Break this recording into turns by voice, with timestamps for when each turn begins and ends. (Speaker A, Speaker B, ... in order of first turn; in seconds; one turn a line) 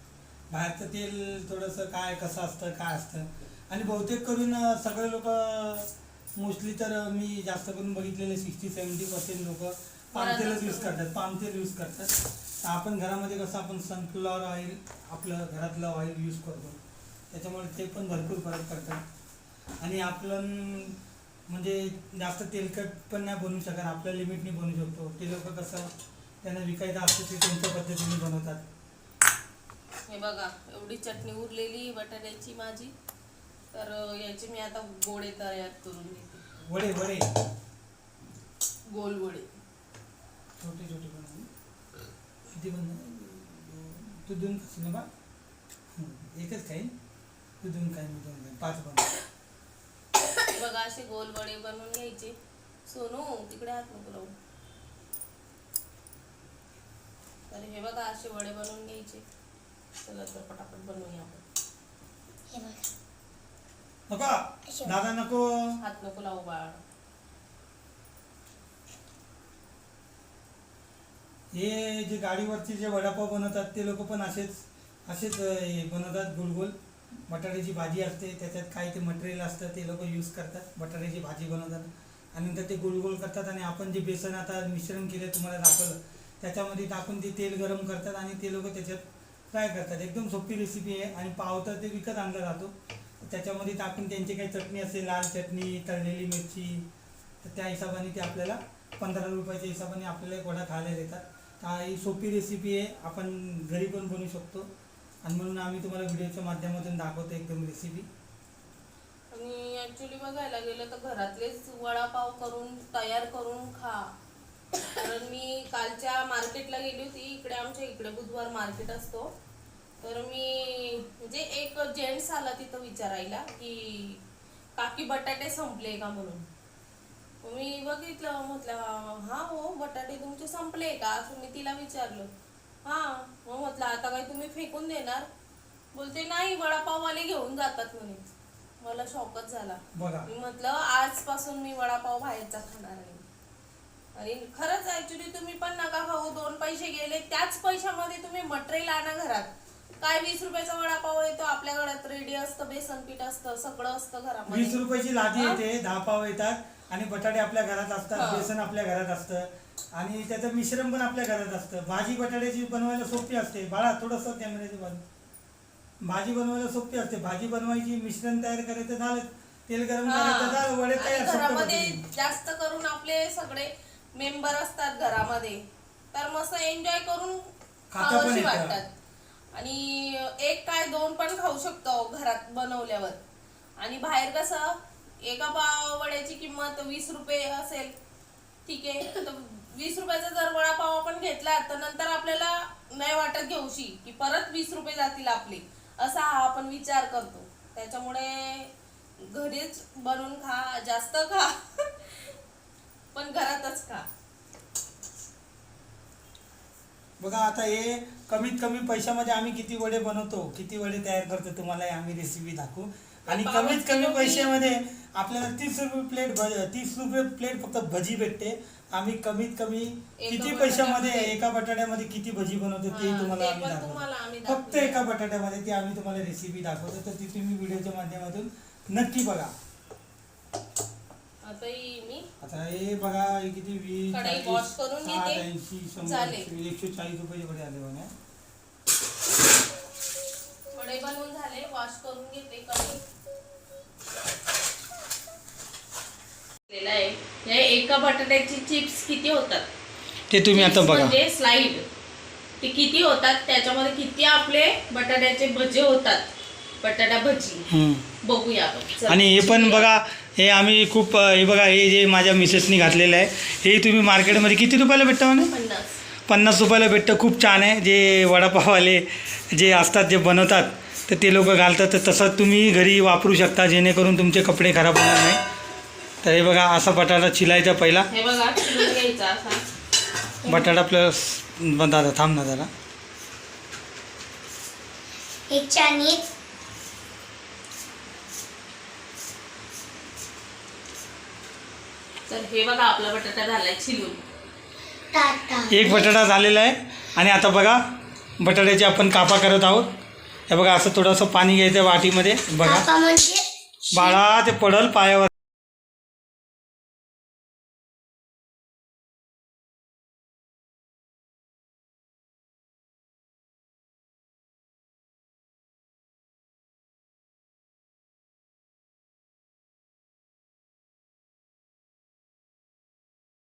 Speaker A: 0.5-16.8
Speaker B: 10.1-10.9
Speaker A: 17.3-19.0
Speaker A: 19.8-25.9
Speaker A: 26.4-28.6
Speaker B: 30.1-32.9
Speaker B: 33.7-36.4
Speaker A: 36.6-37.3
Speaker B: 38.9-39.5
Speaker A: 40.6-41.5
Speaker A: 42.5-45.1
Speaker A: 45.9-46.9
Speaker A: 47.6-49.1
Speaker B: 50.5-52.4
Speaker B: 52.9-54.3
Speaker B: 57.5-59.2
Speaker B: 60.0-61.4
Speaker C: 62.5-62.9
Speaker A: 64.1-65.8
Speaker C: 64.7-65.0
Speaker B: 65.8-66.8
Speaker A: 71.5-76.8
Speaker A: 77.3-96.9
Speaker A: 97.4-104.7
Speaker A: 105.2-108.1
Speaker B: 109.3-114.1
Speaker B: 114.8-119.3
Speaker B: 120.0-124.2
Speaker B: 124.8-126.5
Speaker B: 127.4-132.3
Speaker B: 132.8-135.3
Speaker B: 135.9-138.2
Speaker B: 138.8-143.2
Speaker A: 139.9-140.3
Speaker B: 144.2-149.5
Speaker B: 150.0-154.8
Speaker A: 154.5-165.0
Speaker B: 158.1-158.5
Speaker A: 166.0-172.0
Speaker B: 170.0-178.9
Speaker A: 177.9-178.8
Speaker B: 179.5-183.2
Speaker B: 183.8-187.9
Speaker B: 188.7-202.3
Speaker B: 203.1-204.1
Speaker A: 207.2-229.5
Speaker B: 213.3-214.5
Speaker B: 220.2-221.3
Speaker B: 222.9-225.0
Speaker B: 231.4-232.3
Speaker A: 232.4-238.1
Speaker B: 234.1-235.4
Speaker B: 236.0-236.5
Speaker B: 240.7-243.0
Speaker B: 246.7-249.7
Speaker A: 250.3-251.2
Speaker B: 250.5-251.8
Speaker B: 252.6-256.3
Speaker B: 256.8-257.7
Speaker A: 257.7-258.1
Speaker B: 258.2-260.0
Speaker A: 259.1-265.5
Speaker B: 265.5-266.0
Speaker A: 266.3-275.4
Speaker A: 276.2-278.1
Speaker B: 278.1-279.6
Speaker A: 280.5-282.7
Speaker C: 285.5-286.2
Speaker B: 292.3-294.2
Speaker C: 295.1-296.1
Speaker A: 295.7-297.8
Speaker A: 298.4-299.9
Speaker A: 300.5-302.9
Speaker C: 302.6-304.1
Speaker A: 303.9-305.3